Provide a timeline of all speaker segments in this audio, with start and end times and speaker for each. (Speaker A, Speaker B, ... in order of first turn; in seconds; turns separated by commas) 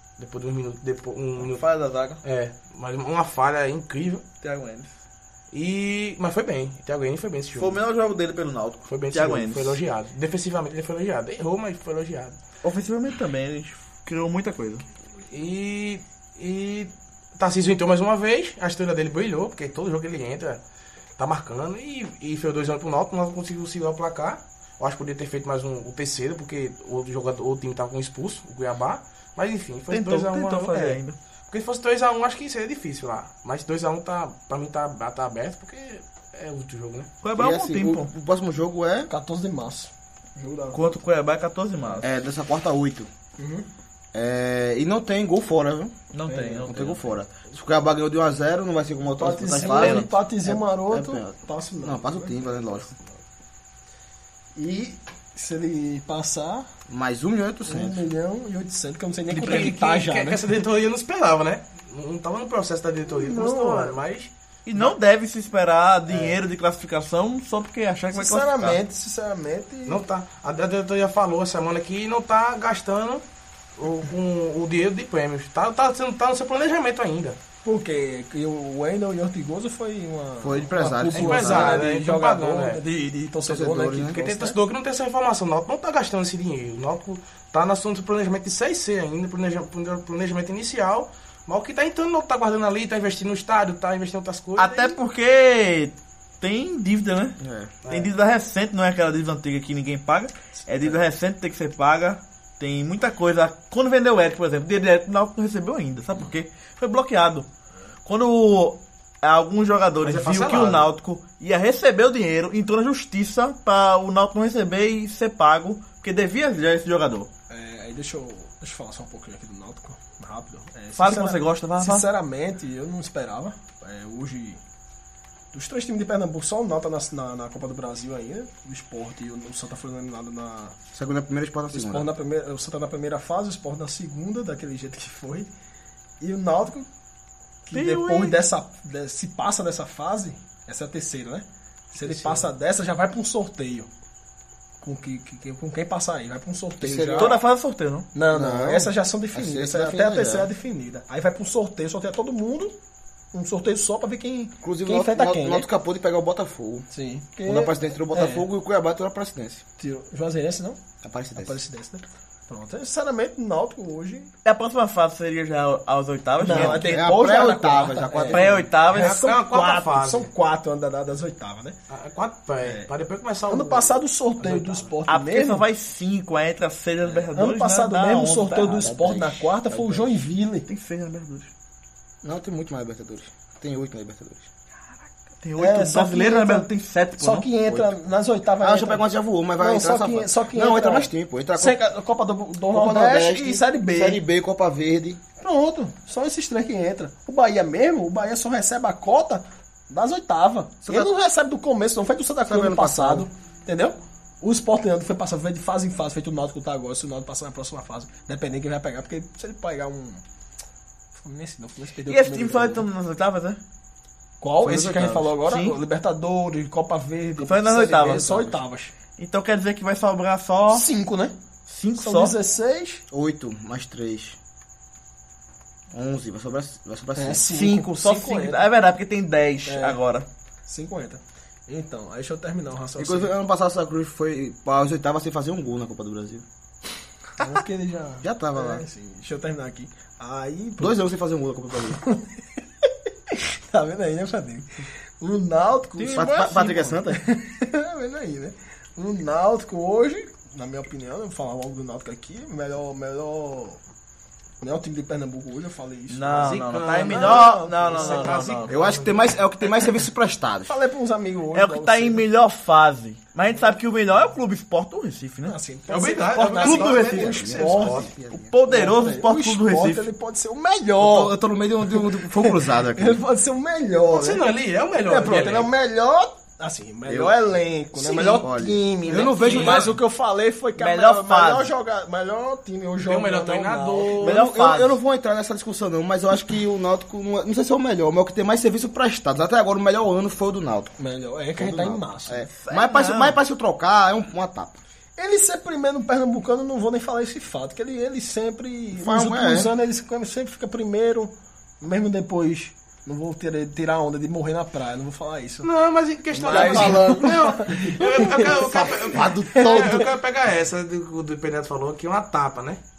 Speaker A: 0.2-1.6, Speaker B: 1.4-2.2, Speaker A: 2.2-4.2, Speaker B: 4.4-4.9, Speaker A: 5.5-7.8, Speaker B: 7.6-9.8, Speaker A: 8.9-12.4, Speaker B: 12.6-14.8, Speaker A: 15.3-20.6, Speaker A: 21.2-37.1, Speaker B: 29.9-31.2, Speaker B: 37.2-38.1, Speaker C: 37.4-39.1, Speaker D: 39.1-41.0, Speaker B: 40.7-42.1, Speaker C: 42.0-43.1, Speaker D: 43.4-43.7, Speaker C: 44.1-46.0, Speaker B: 46.1-47.2, Speaker D: 46.3-46.7, Speaker C: 46.7-52.9, Speaker D: 49.2-53.0, Speaker B: 49.5-50.1, Speaker D: 54.6-56.7, Speaker C: 56.9-58.0, Speaker D: 57.7-60.4, Speaker A: 59.3-64.9, Speaker B: 59.4-59.7, Speaker D: 63.1-64.0, Speaker B: 64.7-68.8, Speaker A: 66.1-66.4, Speaker D: 68.1-70.0, Speaker A: 69.9-73.2, Speaker A: 73.8-77.4, Speaker D: 77.6-84.6, Speaker C: 80.4-81.9, Speaker A: 81.1-82.8, Speaker C: 83.5-84.2, Speaker A: 84.1-95.0, Speaker B: 94.6-107.5, Speaker C: 97.4-97.7, Speaker A: 97.8-98.1, Speaker B: 108.0-117.3, Speaker A: 110.0-110.9, Speaker D: 117.5-124.6, Speaker B: 121.0-122.1, Speaker D: 125.5-130.8, Speaker C: 130.9-132.1, Speaker D: 131.7-135.5, Speaker D: 136.2-136.9, Speaker D: 137.7-143.9, Speaker B: 137.7-138.4, Speaker A: 142.0-142.5, Speaker D: 144.8-147.4, Speaker C: 146.8-147.4, Speaker B: 147.2-148.1, Speaker D: 148.1-152.8, Speaker C: 148.3-150.5, Speaker D: 153.3-155.7, Speaker C: 154.6-156.9, Speaker D: 156.9-158.5, Speaker C: 157.5-159.6, Speaker D: 159.8-160.8, Speaker C: 161.0-161.6, Speaker D: 161.3-164.3, Speaker B: 164.4-166.9, Speaker D: 166.4-171.8, Speaker C: 166.4-168.7, Speaker B: 168.3-169.2, Speaker A: 168.9-170.3, Speaker A: 171.9-174.9, Speaker D: 172.6-172.9, Speaker D: 173.5-175.7, Speaker B: 175.1-178.7, Speaker D: 177.3-180.7, Speaker C: 178.6-180.1, Speaker B: 180.7-181.5, Speaker C: 182.2-184.5, Speaker B: 185.4-187.5, Speaker D: 185.6-189.1, Speaker C: 188.6-191.8, Speaker D: 189.6-194.2, Speaker C: 192.7-195.2, Speaker D: 195.4-210.2, Speaker C: 202.4-203.3, Speaker D: 211.2-212.9, Speaker B: 212.1-213.6, Speaker D: 214.4-218.9, Speaker B: 214.6-215.8, Speaker B: 217.4-218.6, Speaker B: 219.2-220.9, Speaker D: 220.7-221.4, Speaker B: 221.7-222.4, Speaker D: 222.0-223.0, Speaker C: 223.1-224.4, Speaker C: 225.9-227.5, Speaker D: 227.2-228.7, Speaker B: 227.5-230.3, Speaker D: 229.7-230.0, Speaker D: 230.7-233.3, Speaker C: 233.0-236.4, Speaker D: 237.4-241.0, Speaker C: 238.2-238.8, Speaker C: 240.8-242.0, Speaker D: 242.0-253.8, Speaker B: 246.0-246.6, Speaker C: 246.1-247.2, Speaker D: 254.6-258.5, Speaker B: 256.1-258.8, Speaker A: 256.3-259.2, Speaker C: 258.7-260.8, Speaker D: 260.7-262.2, Speaker B: 261.5-265.6, Speaker D: 265.5-268.1, Speaker A: 265.9-268.1, Speaker B: 266.3-267.5, Speaker C: 267.1-268.6, Speaker B: 268.3-270.1, Speaker D: 268.7-271.4, Speaker C: 271.0-273.2, Speaker D: 271.9-274.5, Speaker A: 274.1-275.7, Speaker D: 275.1-284.3, Speaker C: 277.1-277.4, Speaker C: 277.9-280.0, Speaker A: 279.1-279.9, Speaker B: 280.8-281.7, Speaker A: 283.1-284.4, Speaker B: 284.2-285.0, Speaker C: 284.2-290.9, Speaker D: 291.0-292.5, Speaker C: 291.6-294.8, Speaker B: 292.6-293.4, Speaker D: 295.2-305.7, Speaker C: 298.9-299.7, Speaker A: 305.6-312.8, Speaker D: 306.3-308.4, Speaker C: 306.4-307.4, Speaker C: 308.0-310.1, Speaker D: 309.5-310.0